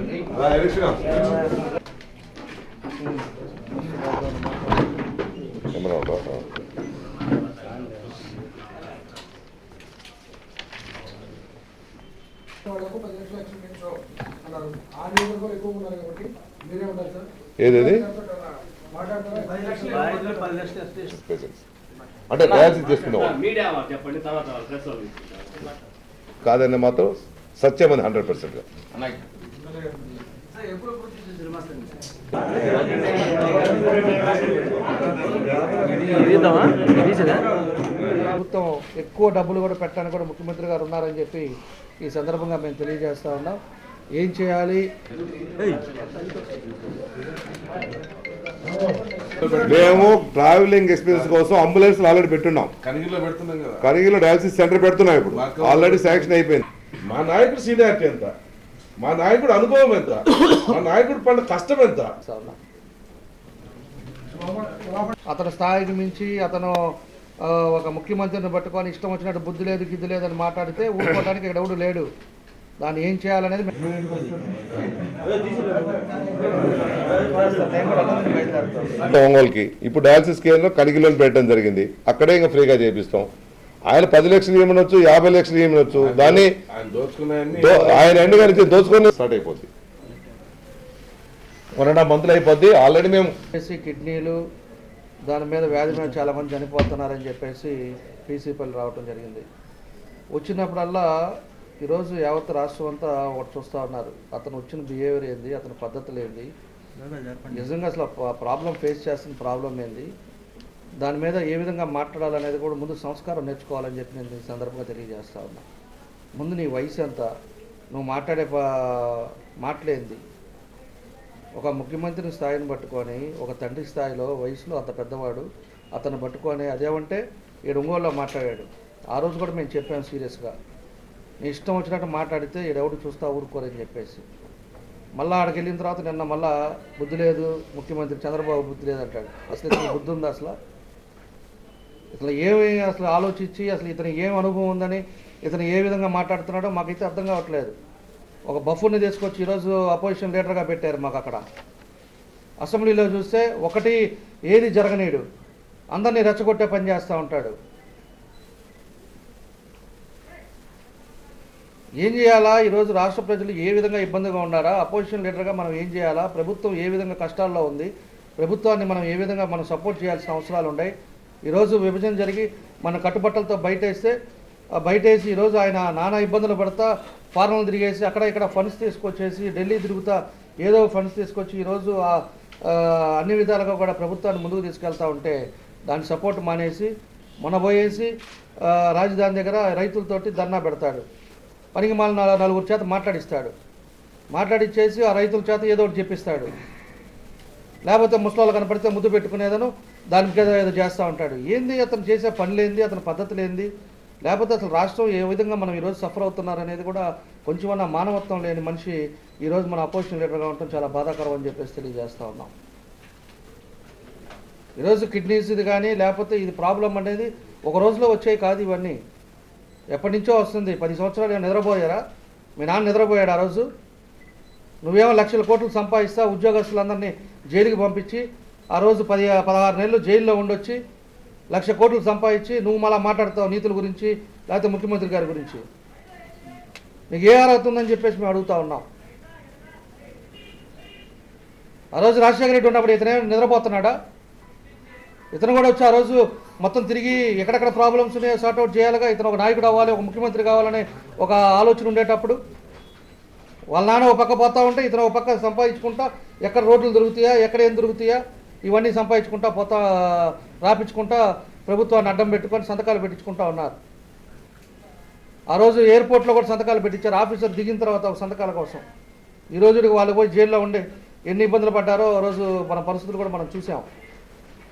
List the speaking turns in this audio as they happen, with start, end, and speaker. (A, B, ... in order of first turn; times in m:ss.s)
0:00.3-0:01.2 A
0:03.8-0:04.6 B
0:05.7-0:06.4 A
0:12.6-0:17.3 C
0:17.6-0:18.1 A
0:18.1-0:21.0 C
0:21.0-0:21.6 A
0:22.3-0:23.4 A
0:23.3-0:25.7 C
0:26.4-0:28.6 A
0:30.5-0:31.9 C
0:32.7-0:34.4 C
0:35.7-0:37.4 C
0:38.2-0:43.6 B
0:44.1-0:44.8 B
0:49.4-0:50.0 D
0:49.5-0:52.7 A
0:52.8-0:53.8 D
0:53.8-0:56.6 A
0:55.3-0:56.3 D
0:57.0-0:58.3 D
0:59.0-1:02.1 D
1:02.2-1:02.6 B
1:05.3-1:12.1 B
1:12.8-1:13.7 B
1:17.2-1:19.0 B
1:19.0-1:23.3 A
1:23.9-1:26.5 A
1:25.9-1:28.8 D
1:27.5-1:29.7 A
1:31.8-1:33.3 A
1:33.5-1:34.4 B
1:35.2-1:39.4 B
1:40.3-1:41.1 B
1:41.8-1:46.5 B
1:47.0-1:47.5 C
1:47.5-1:50.1 B
1:51.0-1:55.6 B
1:56.4-1:57.3 B
1:57.9-2:00.2 B
2:01.6-2:10.5 B
2:11.4-2:14.2 B
2:15.2-2:20.6 B
2:22.1-2:27.7 B
2:28.5-2:31.4 B
2:32.6-2:35.2 B
2:35.9-2:37.5 B
2:42.0-2:50.9 B
2:51.4-2:54.1 B
2:54.8-3:06.9 B
3:07.4-3:11.0 B
3:11.7-3:13.5 B
3:14.3-3:16.5 B
3:17.8-3:23.7 B
3:24.2-3:32.5 B
3:34.8-3:39.0 B
3:39.9-3:42.0 B
3:42.6-3:43.7 B
3:44.8-3:50.8 B
3:51.5-3:55.6 B
3:57.1-3:58.8 B
4:01.9-4:03.9 B
4:05.3-4:12.4 B
4:13.7-4:23.8 B
4:25.5-4:28.8 B
4:29.5-4:33.8 B